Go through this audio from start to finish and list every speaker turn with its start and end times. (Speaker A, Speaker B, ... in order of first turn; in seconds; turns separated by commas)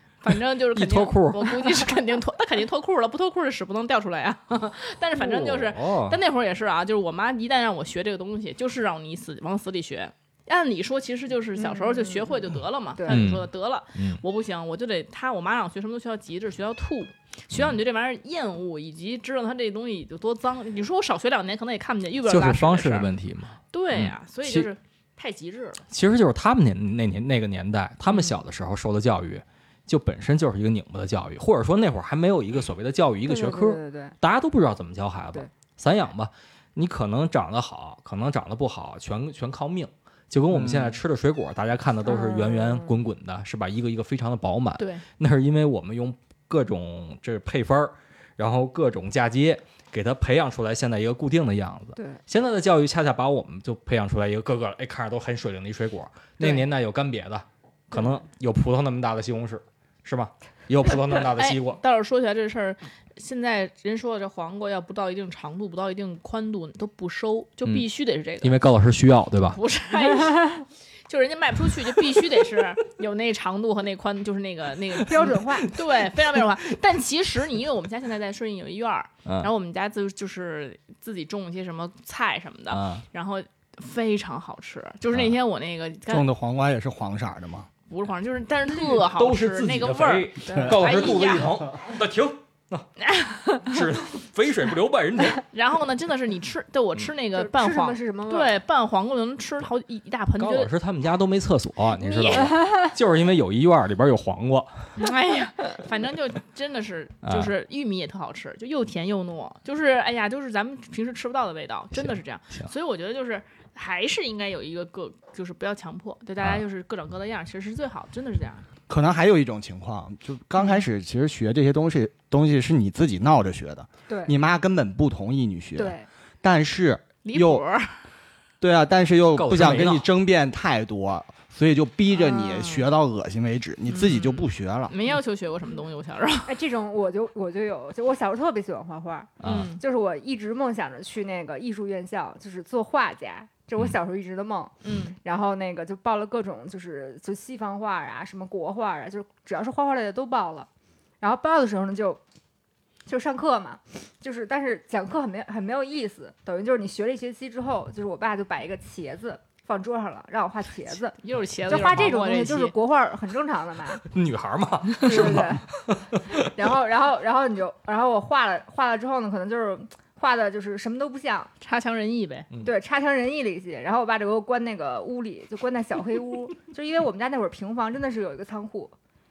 Speaker A: 0.2-23.1, Speaker B: 0.3-1.9, Speaker B: 5.2-6.2, Speaker C: 11.6-12.4, Speaker B: 13.1-14.2, Speaker B: 22.3-24.7, Speaker A: 23.7-25.8, Speaker B: 25.9-61.8, Speaker A: 28.1-28.4, Speaker C: 33.2-34.1, Speaker D: 40.5-41.0, Speaker C: 42.0-42.9, Speaker A: 44.8-45.0, Speaker A: 61.4-68.5, Speaker B: 68.4-69.6, Speaker A: 69.5-86.3, Speaker C: 75.1-75.7, Speaker B: 79.2-79.5, Speaker B: 82.7-83.0, Speaker D: 86.1-87.7, Speaker A: 87.9-91.7, Speaker B: 88.7-92.9, Speaker C: 90.5-90.9, Speaker A: 93.0-93.8, Speaker B: 93.6-95.4, Speaker A: 95.5-100.7, Speaker C: 97.3-98.5, Speaker B: 100.4-104.7, Speaker C: 102.0-102.9, Speaker A: 105.0-118.6, Speaker B: 107.2-107.5, Speaker B: 111.9-112.7, Speaker D: 118.9-127.6, Speaker C: 124.1-124.3, Speaker C: 125.8-126.1, Speaker A: 127.2-127.9, Speaker D: 128.6-134.9, Speaker B: 129.3-130.1, Speaker A: 132.4-132.9, Speaker A: 133.9-136.5, Speaker C: 136.4-150.7, Speaker B: 139.4-139.8, Speaker A: 139.4-139.8, Speaker A: 144.8-145.2, Speaker C: 151.2-152.2, Speaker C: 153.1-161.2, Speaker A: 161.2-162.7, Speaker C: 161.7-164.0, Speaker B: 164.1-166.4, Speaker C: 165.0-165.8, Speaker C: 166.3-171.5, Speaker A: 171.6-172.5, Speaker C: 172.6-178.9